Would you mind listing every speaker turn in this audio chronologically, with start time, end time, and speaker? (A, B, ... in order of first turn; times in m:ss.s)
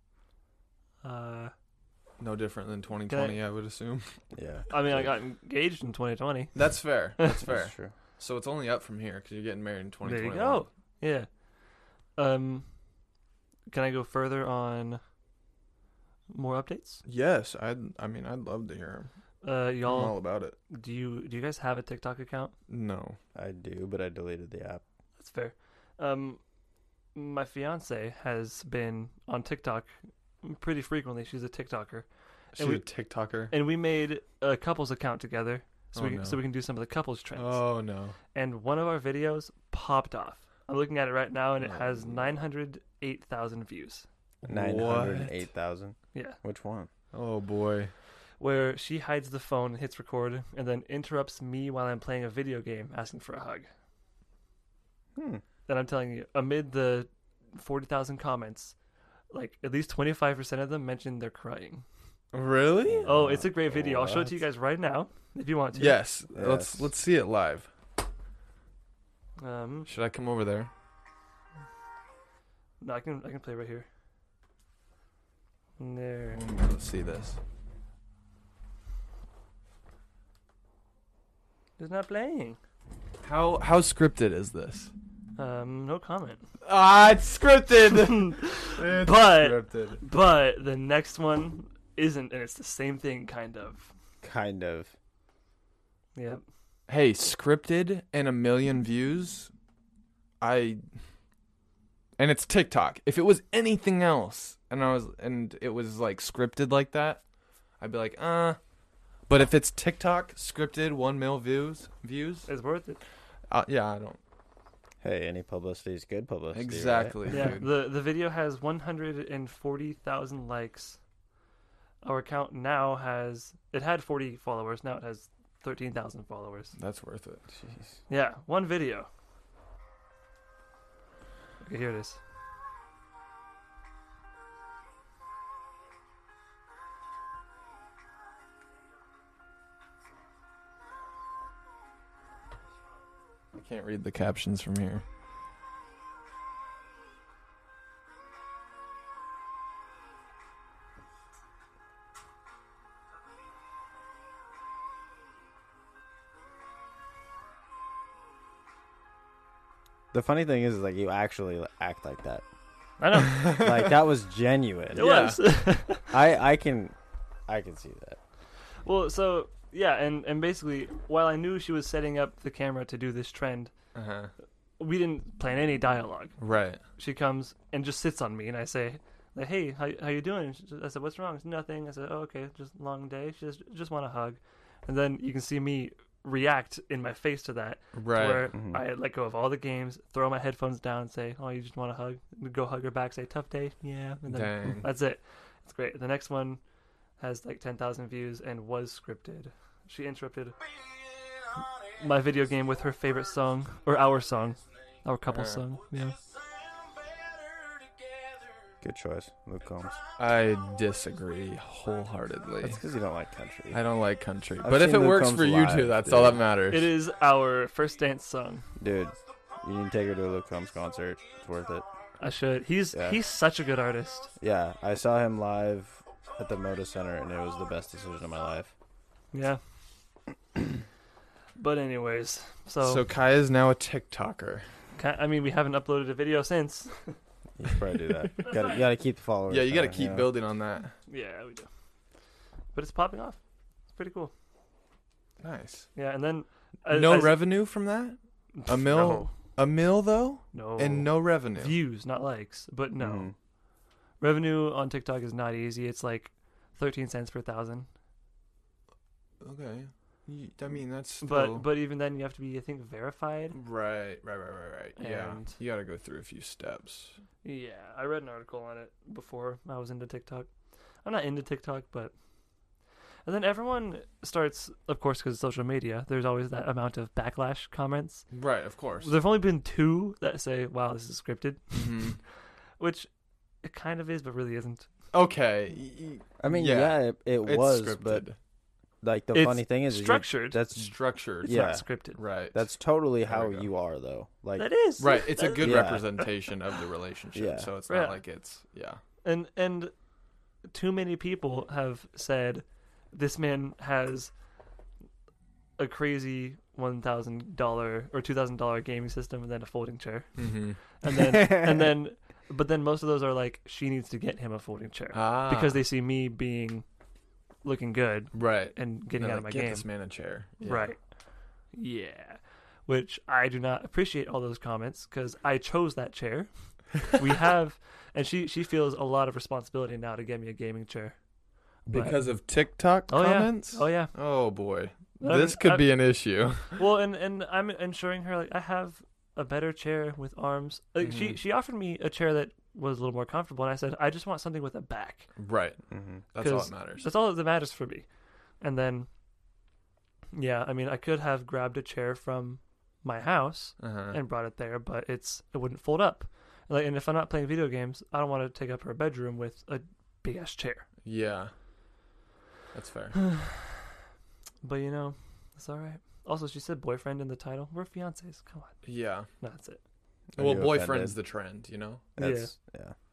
0:01.0-0:01.5 A
0:02.2-0:04.1 B
0:03.1-0:03.4 A
0:04.3-0:05.1 C
0:04.7-0:06.7 A
0:06.6-0:10.6 B
0:07.4-0:07.9 C
0:10.0-0:11.3 A
0:12.2-0:12.7 A
0:13.7-0:15.0 A
0:16.3-0:17.0 A
0:17.1-0:19.1 B
0:19.4-0:22.5 A
0:19.9-0:20.6 B
0:22.7-0:23.2 B
0:23.4-0:24.8 C
0:25.2-0:26.4 A
0:27.2-0:32.1 A
0:32.6-0:33.5 B
0:32.6-0:32.8 A
0:33.5-0:37.6 A
0:35.9-0:36.4 B
0:37.4-0:38.2 B
0:38.3-0:44.1 A
0:41.6-0:42.4 B
0:44.4-0:45.5 B
0:44.4-0:46.9 C
0:46.1-0:46.4 A
0:47.1-0:47.9 B
0:48.4-0:53.7 A
0:55.2-0:55.4 C
0:55.7-0:58.8 A
0:59.3-1:01.8 A
1:02.3-1:03.1 B
1:02.9-1:04.4 C
1:03.0-1:06.0 A
1:05.8-1:07.7 B
1:06.3-1:06.9 C
1:09.4-1:09.9 A
1:09.9-1:10.7 B
1:12.8-1:13.9 A
1:15.8-1:16.4 A
1:16.3-1:17.4 B
1:21.8-1:22.6 A
1:23.2-1:24.9 B
1:25.4-1:26.4 A
1:26.6-1:30.0 B
1:28.0-1:33.9 A
1:34.2-1:34.9 C
1:36.2-1:36.4 A
1:36.9-1:39.5 B
1:40.4-1:40.8 B
1:42.2-1:47.2 B
1:47.8-1:48.6 B
1:49.3-1:52.5 B
1:52.5-1:53.0 A
1:53.5-1:54.2 B
1:55.0-1:57.5 C
1:56.5-1:57.7 B
1:57.3-2:01.0 A
2:02.0-2:06.7 A
2:06.8-2:07.5 B
2:08.1-2:09.1 A
2:11.6-2:12.2 A
2:23.5-2:25.0 B
2:40.1-2:42.4 C
2:43.0-2:43.5 A
2:43.2-2:43.9 B
2:43.4-2:45.1 C
2:45.0-2:45.4 B
2:45.0-2:46.2 A
2:46.1-2:47.0 C
2:47.5-2:48.2 C
2:48.8-2:53.7 A
2:54.0-2:54.3 B
2:54.8-2:56.4 A
2:56.4-2:56.8 B
2:57.0-3:16.6 A
3:08.0-3:08.5 B
3:08.5-3:08.8 C
3:14.3-3:14.9 B
3:17.2-3:20.6 A
3:21.9-3:26.2 A
3:25.3-3:25.6 B
3:28.8-3:30.0 C
3:30.2-3:32.8 B
3:32.6-3:33.8 C
3:33.7-3:36.9 B
3:34.6-3:36.4 C
3:36.7-3:38.7 A
3:38.8-3:41.9 C
3:42.2-3:44.3 A
3:42.9-3:43.2 C
3:44.4-3:48.7 C
3:49.3-3:49.6 A
3:51.6-3:53.0 A
3:52.8-3:54.7 B
3:55.0-3:57.2 A
3:57.6-4:00.3 C
3:58.4-3:58.7 A
3:59.5-4:01.0 B
4:01.1-4:01.7 A
4:02.7-4:03.4 A
4:03.9-4:04.3 A
4:05.4-4:05.9 B
4:06.0-4:07.4 A
4:06.9-4:11.8 B
4:08.6-4:09.3 A
4:10.5-4:13.3 A
4:13.0-4:13.3 C
4:14.2-4:17.9 A
4:19.4-4:21.7 B
4:21.2-4:23.6 A
4:23.5-4:27.2 B
4:25.0-4:25.6 A
4:27.4-4:30.5 A
4:31.0-4:32.1 A
4:33.3-4:38.3 A
4:38.3-4:39.1 B
4:39.0-4:42.2 A
4:41.7-4:42.2 B
4:42.8-4:43.1 A
4:43.6-4:44.9 A
4:45.1-4:48.4 B
4:46.4-4:48.3 C
4:49.0-4:51.8 C
4:49.3-4:50.6 A
4:50.8-4:52.6 B
4:51.4-4:52.2 A
4:52.5-4:54.7 C
4:53.2-4:53.7 B
4:54.6-4:56.2 A
4:55.0-4:59.0 B
4:55.6-4:56.1 C
4:57.4-4:57.7 C
4:57.9-4:58.2 A
4:59.2-4:59.9 A
5:00.7-5:04.3 A
5:05.8-5:16.8 A
5:10.4-5:10.8 B
5:11.3-5:11.9 C
5:15.1-5:15.8 B
5:17.6-5:19.9 A
5:18.3-5:20.9 B
5:20.6-5:21.0 A
5:21.7-5:31.2 A
5:31.9-5:36.8 B
5:31.9-5:32.2 A
5:33.1-5:34.1 A
5:35.2-5:35.8 A
5:36.8-5:45.3 A
5:41.0-5:41.4 B
5:45.4-5:47.1 B
5:45.9-5:46.2 C
5:46.4-5:48.1 A
5:48.6-5:49.1 A
5:50.3-6:00.9 A
5:53.8-5:54.2 B
6:01.0-6:01.5 B
6:02.7-6:03.3 B
6:03.2-6:03.8 A
6:04.6-6:08.8 A
6:08.8-6:09.3 B
6:09.4-6:09.8 A
6:10.4-6:11.2 C
6:10.4-6:12.0 B
6:12.2-6:13.0 C
6:12.2-6:12.5 A